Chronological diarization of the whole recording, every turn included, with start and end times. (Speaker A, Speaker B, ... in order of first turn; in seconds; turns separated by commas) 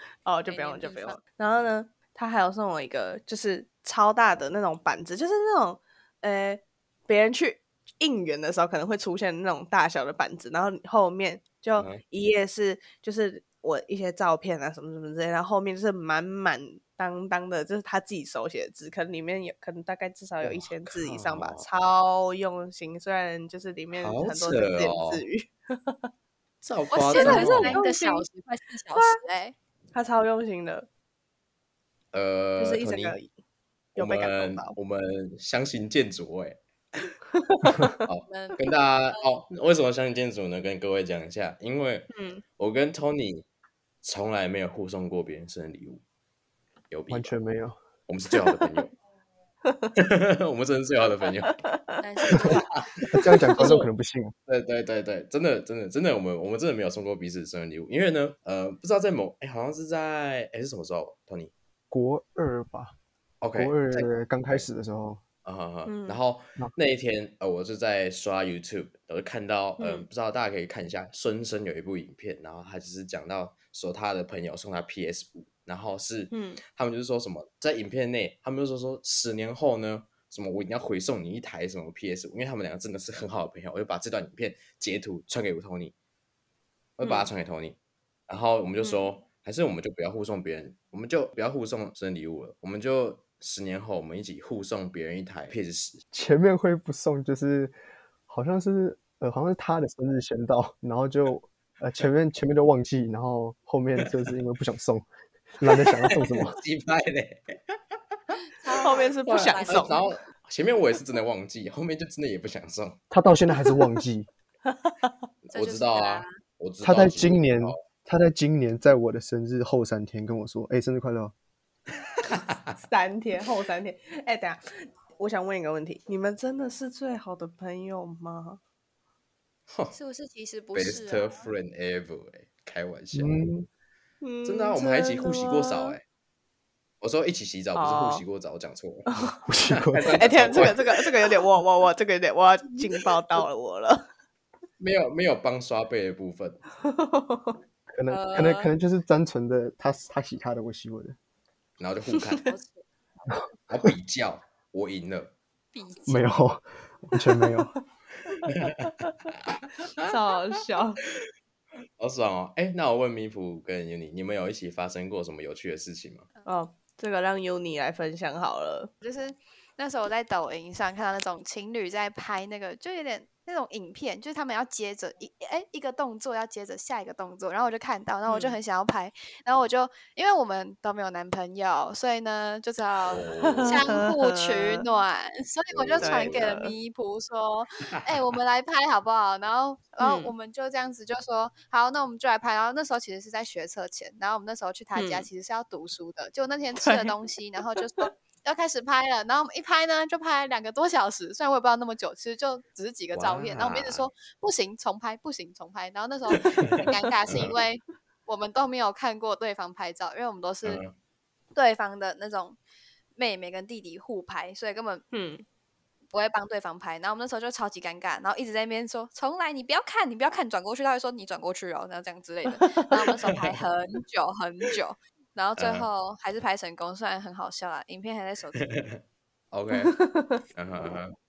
Speaker A: 0.2-26.1, Speaker B: 0.5-1.2, Speaker C: 11.8-12.0, Speaker C: 20.4-21.6, Speaker C: 23.9-25.2, Speaker C: 26.6-27.8, Speaker B: 26.9-29.5, Speaker A: 27.1-28.2, Speaker A: 28.9-29.2, Speaker A: 29.9-30.9, Speaker C: 32.1-33.2, Speaker A: 32.6-33.3, Speaker A: 34.0-34.8, Speaker C: 34.0-36.6, Speaker A: 37.3-38.0, Speaker C: 38.0-43.5, Speaker B: 38.3-38.6, Speaker A: 42.1-42.4, Speaker C: 44.0-46.0, Speaker C: 46.9-47.3, Speaker D: 47.1-47.8, Speaker C: 48.1-48.9, Speaker C: 49.9-51.5, Speaker A: 51.6-52.5, Speaker B: 52.0-52.9, Speaker C: 52.8-53.9, Speaker D: 53.1-54.3, Speaker A: 53.1-53.7, Speaker C: 54.5-61.5, Speaker D: 61.9-62.9, Speaker C: 63.4-64.1, Speaker D: 63.5-65.2, Speaker C: 65.4-85.9, Speaker A: 65.8-66.2, Speaker A: 69.8-70.1, Speaker A: 76.3-76.6, Speaker C: 87.0-87.8, Speaker A: 87.0-87.3, Speaker C: 88.3-96.0, Speaker A: 88.8-89.1, Speaker D: 96.1-97.7, Speaker D: 98.3-105.0, Speaker D: 105.6-106.6, Speaker C: 106.3-107.8, Speaker B: 108.6-110.1, Speaker A: 108.8-110.0, Speaker C: 109.3-113.0, Speaker D: 113.1-114.3, Speaker A: 114.7-115.1, Speaker C: 115.4-117.8, Speaker B: 115.5-116.3, Speaker D: 116.8-121.3, Speaker C: 122.3-122.7, Speaker A: 122.8-124.6, Speaker A: 125.2-128.6, Speaker C: 129.7-129.9, Speaker B: 129.9-131.5, Speaker C: 130.7-133.4, Speaker D: 133.1-133.7, Speaker A: 134.2-136.0, Speaker C: 134.4-136.0, Speaker C: 137.0-139.1, Speaker A: 137.7-138.2, Speaker A: 139.1-139.4, Speaker D: 139.4-140.8, Speaker C: 139.7-140.8, Speaker A: 140.1-144.0, Speaker C: 144.8-146.6, Speaker A: 146.8-147.6, Speaker D: 147.9-151.2, Speaker B: 148.1-148.7, Speaker C: 151.8-152.5, Speaker B: 152.4-152.8, Speaker C: 153.7-155.3, Speaker B: 155.7-156.3, Speaker D: 156.1-157.7, Speaker C: 158.5-158.9, Speaker C: 159.6-160.1, Speaker A: 160.0-161.0, Speaker C: 162.0-166.3, Speaker A: 166.4-168.9, Speaker B: 169.0-210.8, Speaker A: 178.3-178.6, Speaker C: 183.1-184.0, Speaker A: 183.4-184.8, Speaker C: 185.7-186.5, Speaker A: 186.0-186.7, Speaker A: 190.0-190.3, Speaker A: 194.9-195.3, Speaker A: 196.8-197.1, Speaker C: 203.1-204.1, Speaker C: 206.3-207.6, Speaker C: 210.6-210.9, Speaker B: 211.5-212.6, Speaker B: 213.2-215.0, Speaker A: 215.1-215.4, Speaker B: 216.1-228.8, Speaker A: 222.4-223.1, Speaker C: 225.6-225.9, Speaker C: 228.6-228.9, Speaker C: 229.5-229.9, Speaker A: 229.7-230.4, Speaker C: 230.5-231.1